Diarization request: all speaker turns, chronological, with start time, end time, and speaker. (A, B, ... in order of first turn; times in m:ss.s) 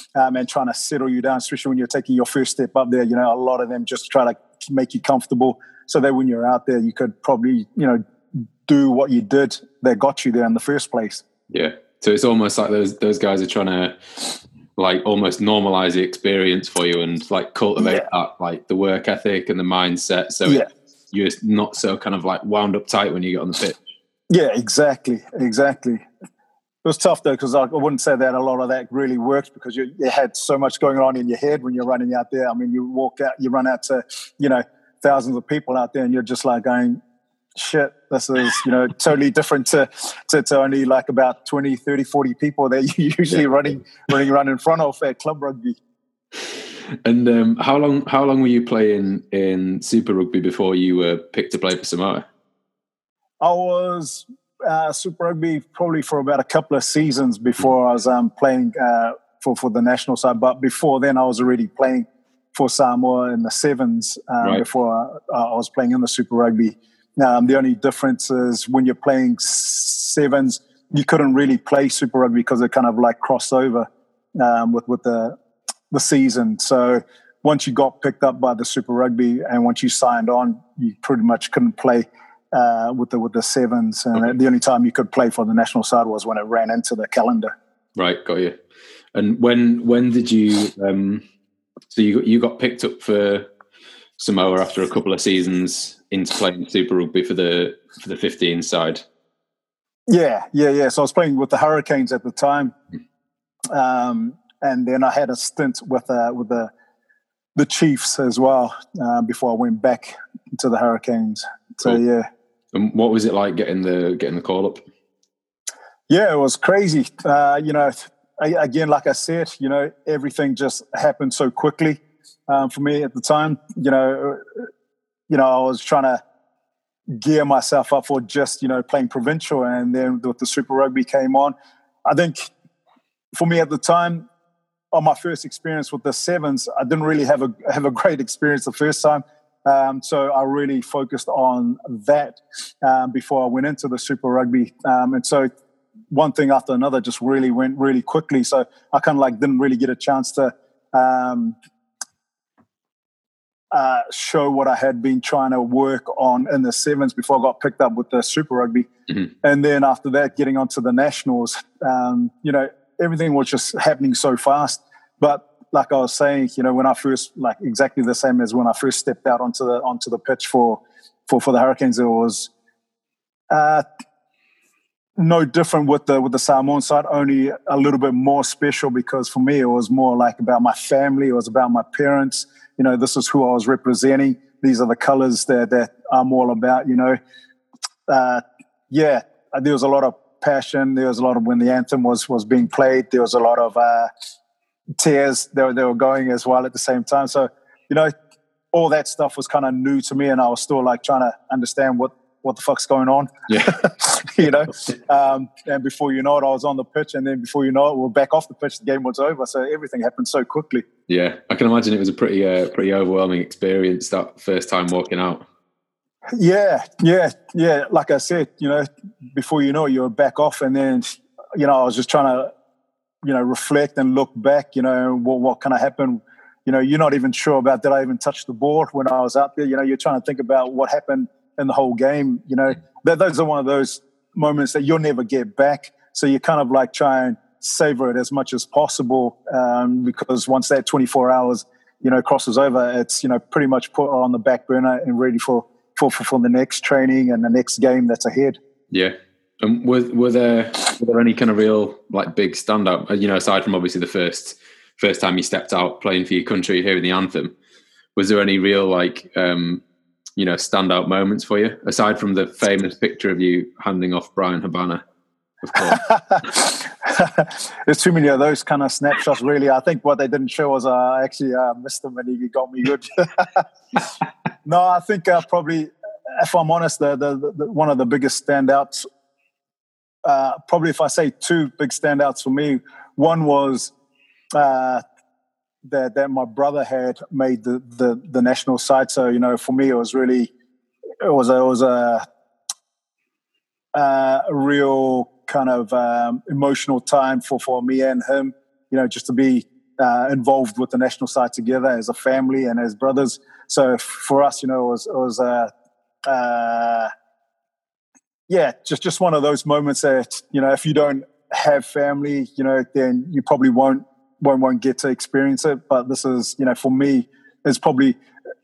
0:00.2-0:11.2 A
0:11.5-0:14.2 B
0:14.8-0:23.8 B
0:24.3-0:26.0 A
0:26.8-0:37.0 A
0:37.6-0:45.8 A
0:47.0-0:52.3 B
0:53.4-1:15.4 A
1:15.9-1:27.5 A
1:28.0-1:28.6 B
1:29.1-1:31.2 B
1:31.9-1:33.5 B
1:34.2-1:39.0 B
1:40.1-1:42.8 A
1:43.7-1:46.7 A
1:47.6-1:52.3 A
1:52.7-1:54.8 B
1:56.1-2:04.7 A
2:05.3-2:06.2 A
2:07.1-2:11.6 A
2:12.1-2:12.5 A
2:13.3-2:14.3 A
2:14.9-2:25.5 A
2:26.1-2:31.6 A
2:33.7-2:38.9 A
2:39.4-2:52.5 A
2:53.5-2:53.8 A
2:55.2-3:07.2 A
3:08.1-3:14.1 A
3:15.0-3:18.1 A
3:18.7-3:30.8 A
3:23.5-3:23.7 B
3:31.1-3:35.4 B
3:36.4-3:42.5 A
3:43.2-4:08.6 A
4:08.9-4:17.6 B
4:18.2-4:19.8 B
4:20.4-4:25.0 B
4:25.6-4:26.0 B
4:25.9-4:33.6 A
4:34.6-4:39.0 A
4:40.2-4:43.9 A
4:44.5-4:45.0 A
4:45.8-4:50.5 A
4:51.2-4:52.2 A
4:53.9-5:05.7 A
5:06.3-5:07.1 A
5:08.5-5:18.2 A